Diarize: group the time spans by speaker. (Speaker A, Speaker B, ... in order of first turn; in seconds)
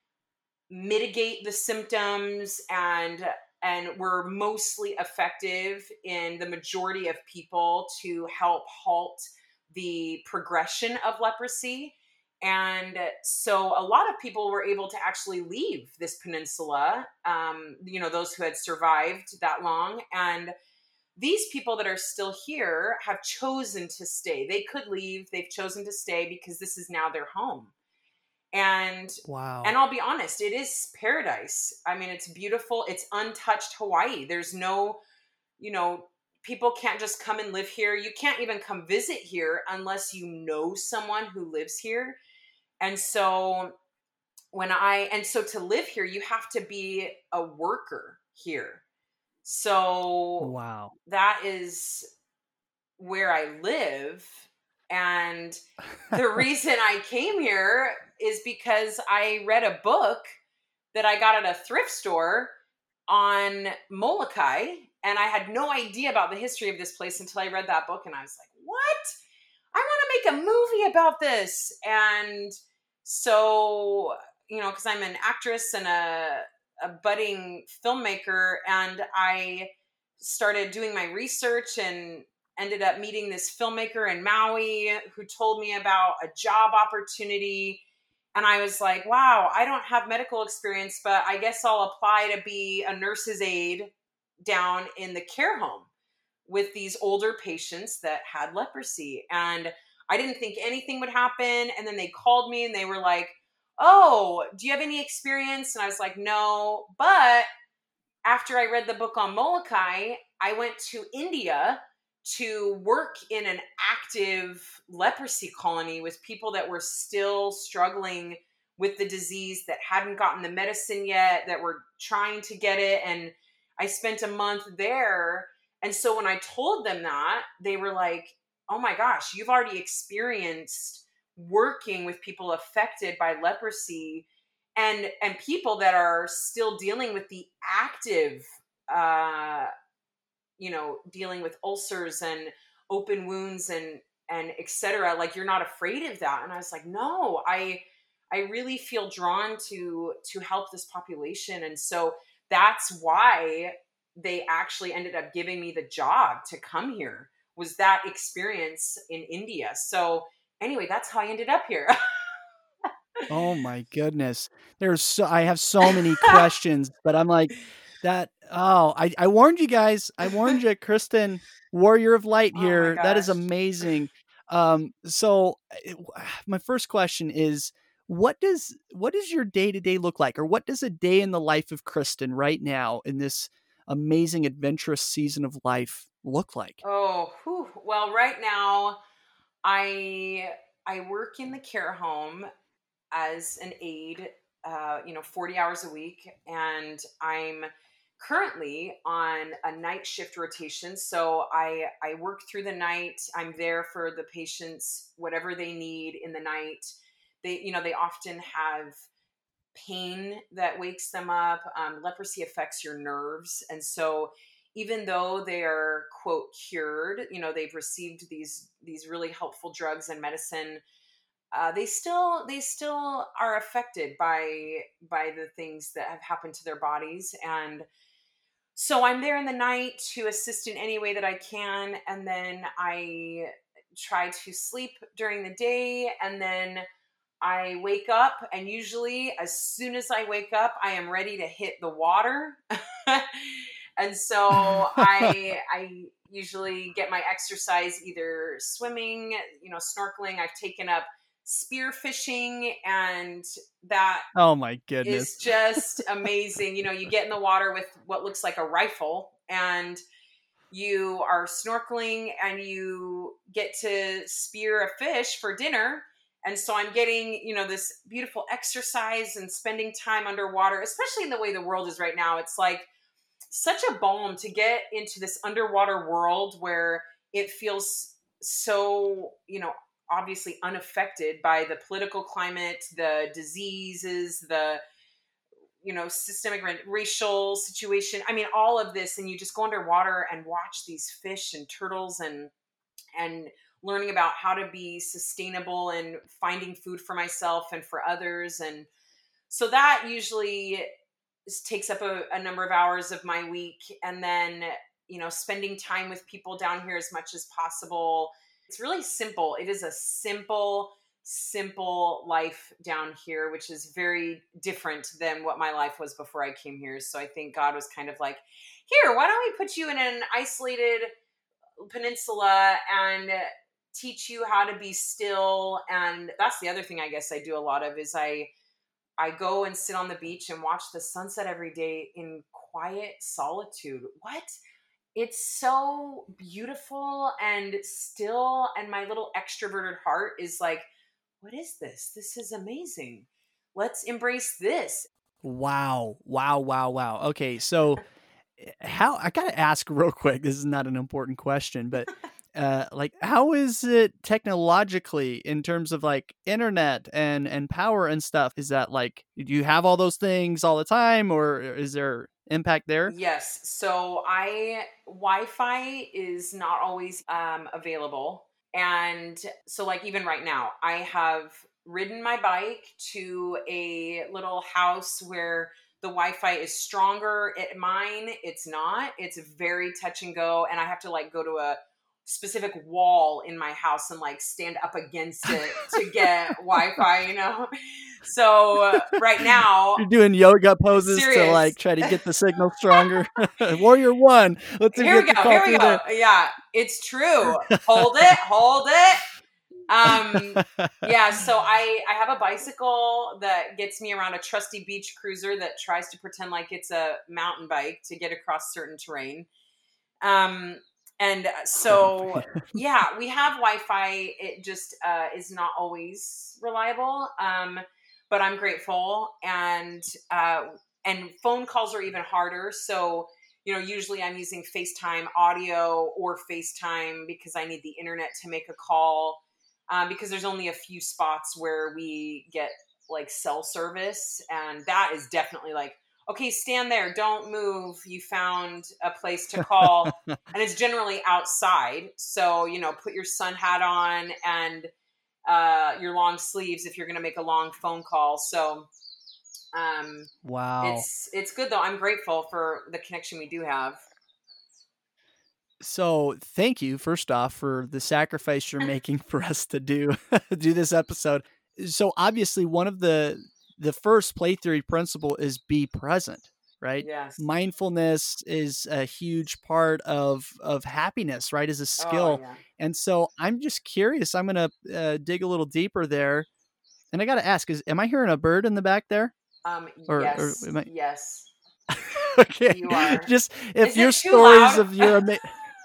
Speaker A: 0.7-20.5, 21.1-27.7, 28.5-35.0, 35.6-42.2, 42.8-43.7, 44.5-48.8, 49.4-50.5, 51.0-52.0, 53.0-55.6, 56.1-60.2, 60.9-62.5, 63.1-69.1, 69.7-87.8, 88.3-93.9, 94.5-95.9, 96.5-107.5, 108.2-139.7, 140.6-162.3, 165.9-166.4, 172.5-173.4, 186.8-189.0, 189.6-192.5, 193.1-206.9, 207.4-209.0, 209.7-220.8, 221.5-227.8, 228.8-236.8, 237.4-254.3, 255.0-260.0, 260.7-272.9, 273.5-284.8, 285.8-292.5, 293.1-298.9, 299.5-300.9, 301.5-321.1, 321.8-328.5, 329.2-334.5, 335.1-340.9, 341.4-345.1, 363.1-390.1, 390.9-392.2, 392.9-393.2, 394.9-399.2, 399.9-409.5, 410.2-444.9, 445.4-448.9, 449.7-454.0, 467.0-467.4, 472.0-472.6, 479.6-481.5, 482.6-485.1
Speaker B: 29.2-29.8, 50.4-50.9, 163.3-186.8, 244.5-245.3, 254.3-255.8, 345.4-348.0, 348.6-363.1, 385.5-386.2, 390.0-396.0, 400.1-401.0, 411.8-412.6, 439.6-440.3, 450.4-451.0, 455.8-476.5, 477.1-479.3, 480.1-480.9, 481.9-485.5